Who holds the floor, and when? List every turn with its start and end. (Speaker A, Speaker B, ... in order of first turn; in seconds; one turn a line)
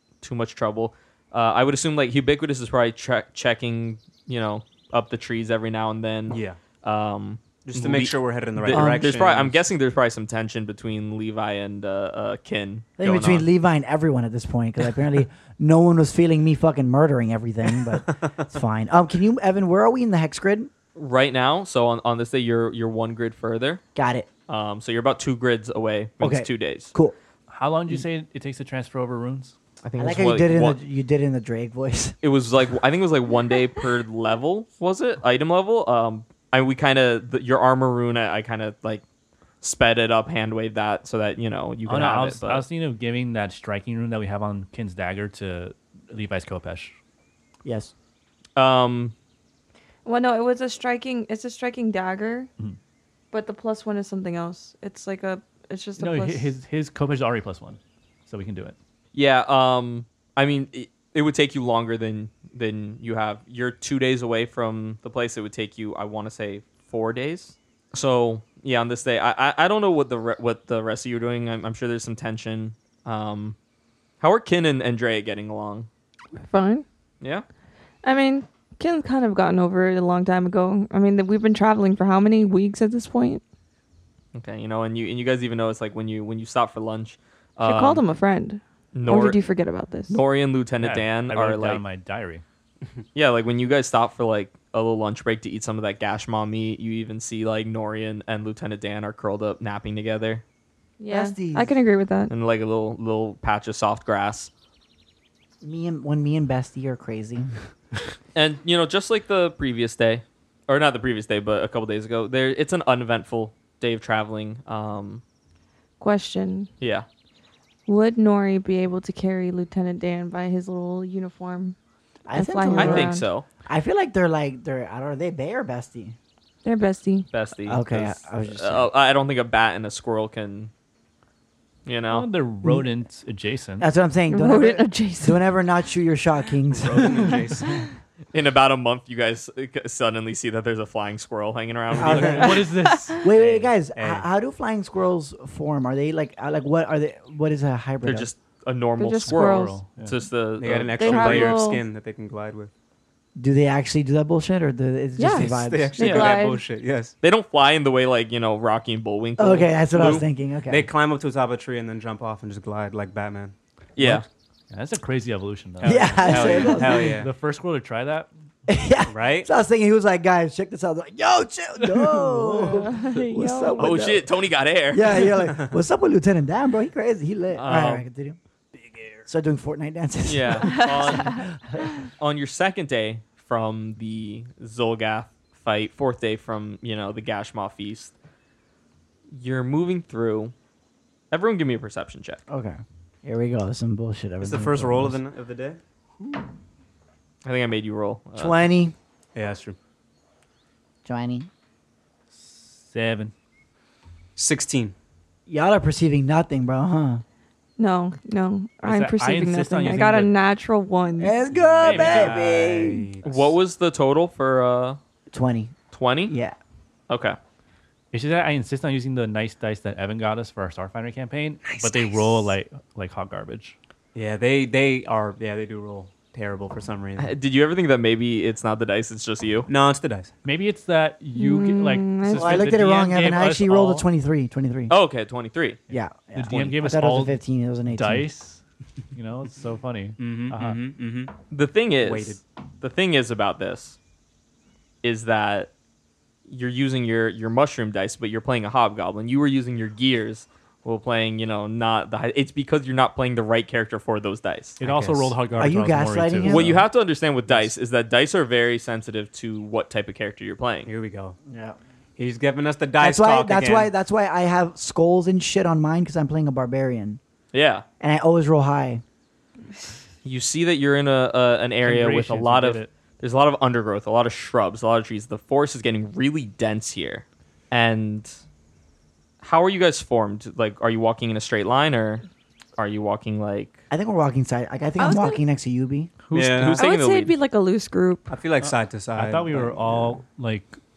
Speaker A: 0.2-13.5
Speaker B: 6.3-6.6
Speaker B: 7.7-9.6
Speaker C: 8.7-9.1
Speaker C: 13.0-20.7
Speaker B: 17.9-18.5
Speaker A: 20.9-23.8
Speaker C: 23.9-24.3
Speaker A: 24.5-26.9
Speaker C: 26.2-27.1
Speaker D: 27.5-29.5
Speaker A: 29.8-30.8
Speaker C: 30.0-32.1
Speaker A: 32.2-39.0
Speaker A: 39.6-42.6
Speaker D: 41.9-46.9
Speaker C: 47.6-47.9
Speaker A: 48.5-49.1
Speaker E: 50.0-52.5
Speaker E: 53.3-56.5
Speaker D: 56.0-58.8
Speaker A: 59.1-73.5
Speaker A: 74.2-75.9
Speaker E: 76.4-76.8
Speaker E: 78.0-83.4
Speaker A: 84.3-88.0
Speaker E: 87.6-90.2
Speaker A: 88.9-89.4
Speaker A: 90.1-91.8
Speaker D: 90.8-92.4
Speaker A: 93.1-100.4
Speaker E: 101.0-102.3
Speaker C: 101.1-101.8
Speaker A: 102.3-104.5
Speaker C: 105.6-107.5
Speaker A: 108.3-115.2
Speaker E: 116.0-116.7
Speaker A: 116.8-117.0
Speaker E: 117.8-121.8
Speaker C: 122.3-123.1
Speaker E: 122.3-123.3
Speaker A: 122.8-123.4
Speaker C: 123.7-126.2
Speaker E: 126.6-127.3
Speaker A: 127.3-130.7
Speaker C: 127.7-128.9
Speaker A: 131.8-132.3
Speaker D: 132.1-133.9
Speaker C: 133.8-137.3
Speaker E: 134.3-135.4
Speaker B: 136.8-137.8
Speaker D: 136.8-137.8
Speaker A: 138.3-142.4
Speaker B: 141.9-142.6
Speaker C: 142.0-142.6
Speaker D: 142.3-143.2
Speaker E: 142.6-143.2
Speaker C: 143.2-148.3
Speaker B: 143.3-144.3
Speaker A: 148.0-151.6
Speaker E: 149.0-149.8
Speaker D: 149.3-150.2
Speaker B: 150.6-152.7
Speaker E: 151.0-151.8
Speaker C: 153.3-156.0
Speaker E: 155.2-156.6
Speaker B: 155.3-157.1
Speaker A: 156.0-156.4
Speaker A: 157.2-160.3
Speaker C: 159.4-160.9
Speaker B: 160.7-163.5
Speaker A: 164.0-164.2
Speaker D: 164.7-168.3
Speaker B: 165.8-167.3
Speaker C: 165.8-167.2
Speaker C: 168.7-174.3
Speaker B: 169.1-169.5
Speaker D: 171.8-173.0
Speaker E: 172.6-174.0
Speaker A: 173.8-175.3
Speaker C: 174.9-178.4
Speaker A: 177.5-178.1
Speaker B: 178.7-179.2
Speaker C: 179.3-181.9
Speaker A: 180.2-181.4
Speaker E: 180.7-181.4
Speaker A: 182.2-188.1
Speaker A: 189.3-190.5
Speaker A: 191.3-192.4
Speaker C: 192.5-195.2
Speaker B: 194.4-195.8
Speaker A: 197.4-198.7
Speaker C: 198.3-198.9
Speaker B: 199.3-199.8
Speaker C: 201.0-201.5
Speaker D: 202.3-203.3
Speaker B: 204.3-204.9
Speaker C: 205.5-207.2
Speaker E: 207.8-211.3
Speaker D: 208.8-210.3
Speaker C: 211.2-213.1
Speaker B: 211.6-213.5
Speaker D: 211.8-212.4
Speaker A: 213.2-215.0
Speaker C: 215.3-215.7
Speaker A: 215.9-216.3
Speaker C: 216.3-216.6
Speaker A: 217.1-217.4
Speaker D: 218.1-223.7
Speaker B: 221.6-222.5
Speaker B: 224.1-227.3
Speaker A: 227.2-229.7
Speaker B: 229.7-230.3
Speaker D: 230.4-234.1
Speaker E: 231.3-232.6
Speaker B: 232.3-232.7
Speaker C: 232.4-234.9
Speaker A: 234.9-235.8
Speaker C: 235.9-238.2
Speaker D: 236.3-238.6
Speaker D: 239.1-240.8
Speaker B: 240.2-241.3
Speaker A: 241.5-244.0
Speaker B: 242.0-242.4
Speaker A: 245.0-245.7
Speaker A: 246.5-254.8
Speaker D: 254.8-256.8
Speaker B: 254.8-255.3
Speaker C: 255.6-256.8
Speaker A: 256.5-260.9
Speaker B: 260.9-261.4
Speaker C: 261.5-261.8
Speaker B: 262.2-263.9
Speaker C: 263.0-267.2
Speaker A: 267.5-267.8
Speaker C: 268.0-269.0
Speaker A: 270.2-278.3
Speaker D: 271.8-272.9
Speaker A: 279.4-282.2
Speaker A: 282.8-283.8
Speaker C: 283.9-286.1
Speaker E: 285.0-285.4
Speaker A: 286.3-287.3
Speaker B: 286.3-286.8
Speaker E: 286.8-288.4
Speaker B: 288.3-290.1
Speaker D: 288.6-290.8